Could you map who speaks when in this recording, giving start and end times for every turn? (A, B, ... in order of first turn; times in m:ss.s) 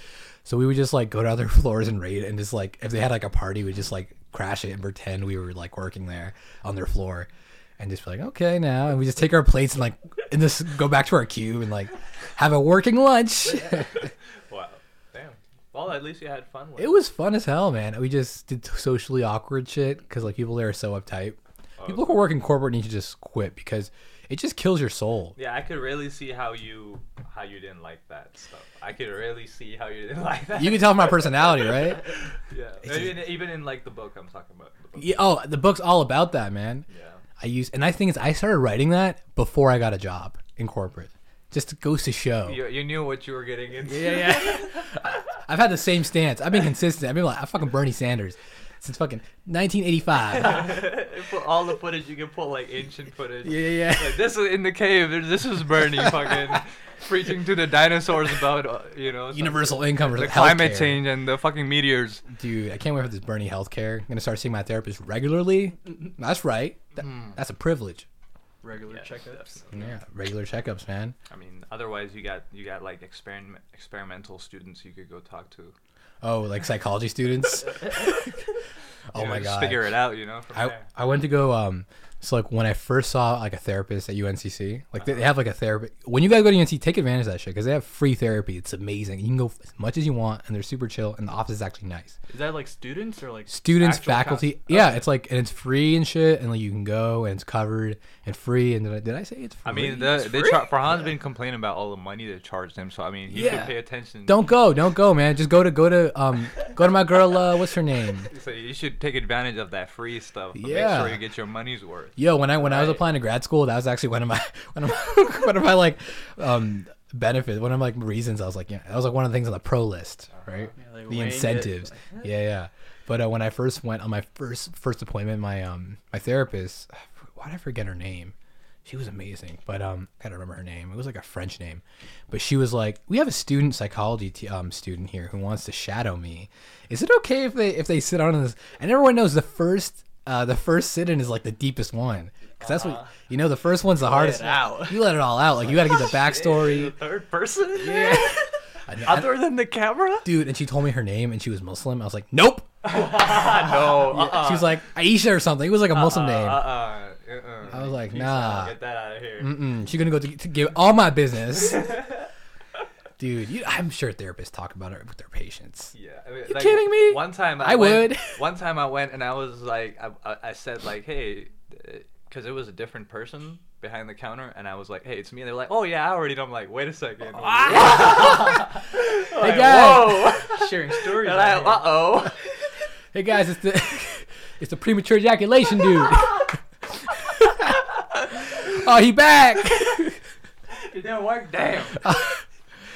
0:00.4-0:14.1 A
0:13.5-0:17.0 B
0:16.8-0:25.4 A
0:21.8-0:22.3 B
0:25.4-0:35.2 B
0:30.6-0:32.1 A
0:32.8-0:33.3 A
0:35.0-0:36.9 A
0:36.9-0:37.2 B
0:37.4-0:42.6 A
0:42.4-0:45.0 B
0:43.8-0:50.9 A
0:50.3-1:02.2 B
0:53.4-0:54.3 A
0:59.3-1:01.0 A
1:02.3-1:08.1 A
1:07.0-1:07.4 B
1:08.6-1:09.7 C
1:08.9-1:09.9 B
1:09.7-1:11.1 A
1:11.3-1:15.8 B
1:16.2-1:18.4 A
1:19.1-1:20.0 A
1:19.1-1:20.9 B
1:20.5-1:32.2 A
1:32.3-1:35.0 C
1:33.5-1:40.2 A
1:39.6-1:44.5 B
1:40.2-1:40.7 C
1:43.3-1:48.3 A
1:43.4-1:43.7 C
1:48.3-1:53.1 B
1:50.6-1:51.2 A
1:52.2-2:26.9 A
2:00.3-2:00.7 B
2:00.8-2:02.1 C
2:22.6-2:23.1 B
2:24.0-2:25.2 C
2:25.6-2:28.5 B
2:27.8-2:29.5 A
2:29.0-2:30.3 B
2:30.2-2:36.7 A
2:32.8-2:34.8 B
2:35.9-2:39.6 B
2:37.7-2:38.8 A
2:39.4-2:42.1 A
2:43.2-2:45.9 A
2:45.9-3:02.4 B
2:46.4-2:48.4 A
2:57.6-2:58.6 A
2:59.3-3:00.3 A
2:59.5-3:02.0 C
3:03.1-3:10.2 A
3:10.7-3:12.2 B
3:11.9-3:12.4 A